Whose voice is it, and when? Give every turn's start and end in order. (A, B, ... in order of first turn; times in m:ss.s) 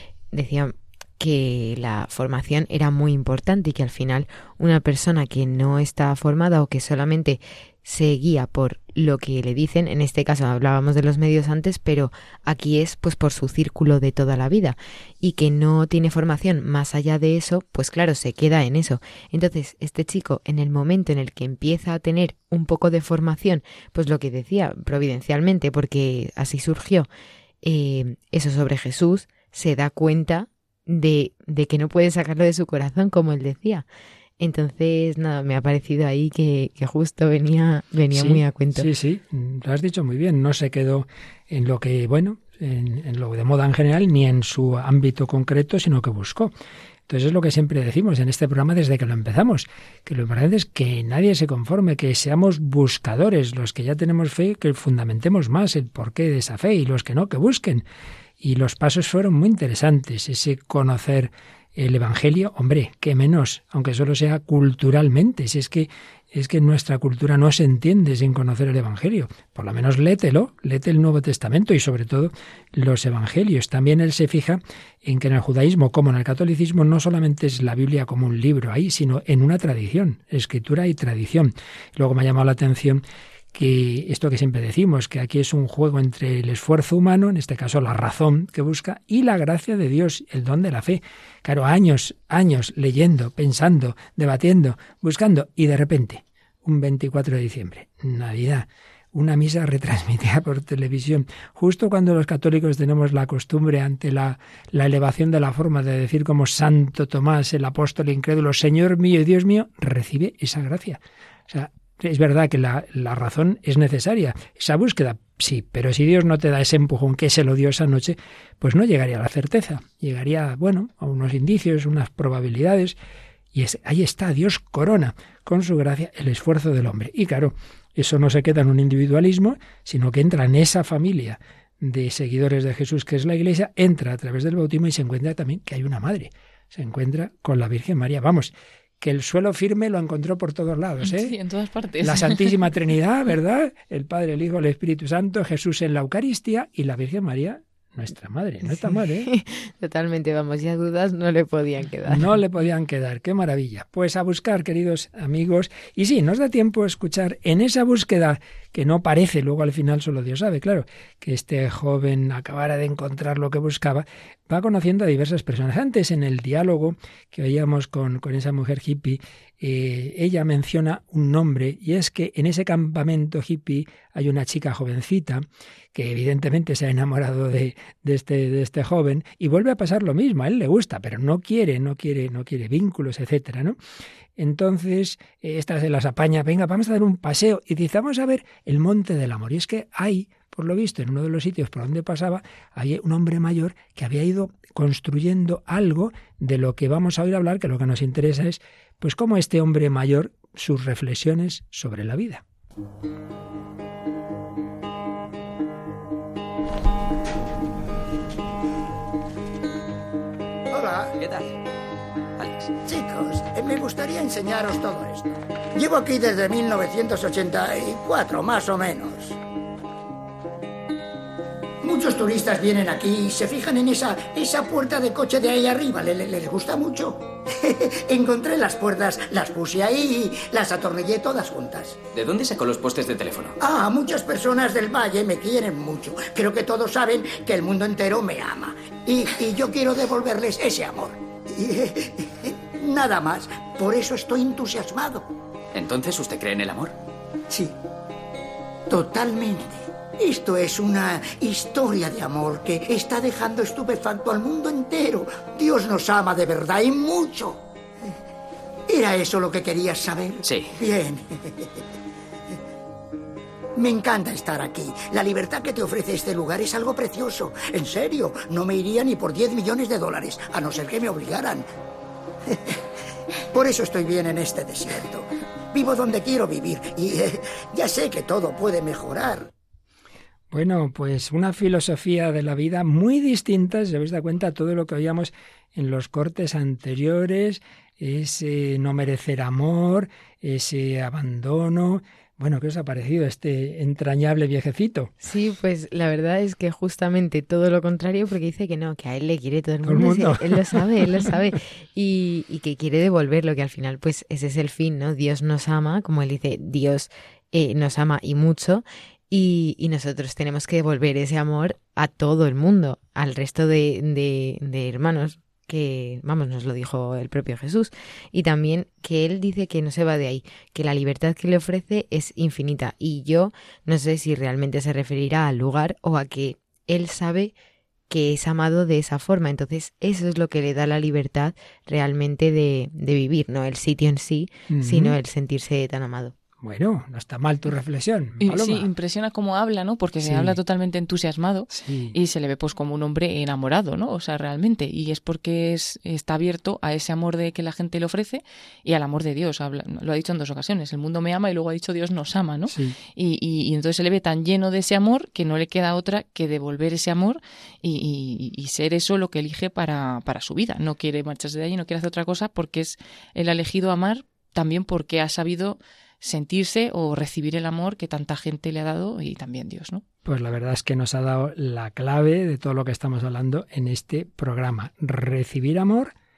0:00.3-0:27.1 A
0:27.6-0:33.9 A
0:34.4-0:38.9 A
0:38.1-0:46.5 B
0:47.1-0:57.8 B
0:58.4-1:23.0 B
1:23.5-2:03.0 B
2:03.5-2:21.4 B
2:21.0-2:22.6 C
2:22.0-2:29.3 B
2:28.6-2:32.3 A
2:32.1-3:03.8 B
3:04.4-3:22.4 B
3:30.7-3:31.1 D
3:31.2-3:31.5 E
3:32.4-3:32.7 E
3:32.8-3:39.4 D
3:41.8-3:52.0 D
3:52.1-3:53.6 E
3:53.6-4:05.3 D
4:05.7-4:06.9 E
4:07.5-4:07.7 D
4:08.9-4:17.6 D
4:18.9-4:21.7 D
4:20.4-4:20.7 E
4:23.8-4:31.7 D
4:32.5-4:32.8 D
4:33.5-4:39.5 D
4:40.5-4:55.1 B
4:55.2-5:27.5 A
4:59.8-5:01.3 B
5:28.1-5:36.4 A
5:34.7-5:35.2 B
5:36.6-5:38.9 B
5:38.4-6:10.0 C
5:40.2-5:40.6 B
5:41.7-5:42.2 B
5:52.7-5:53.0 B
6:10.2-6:16.1 B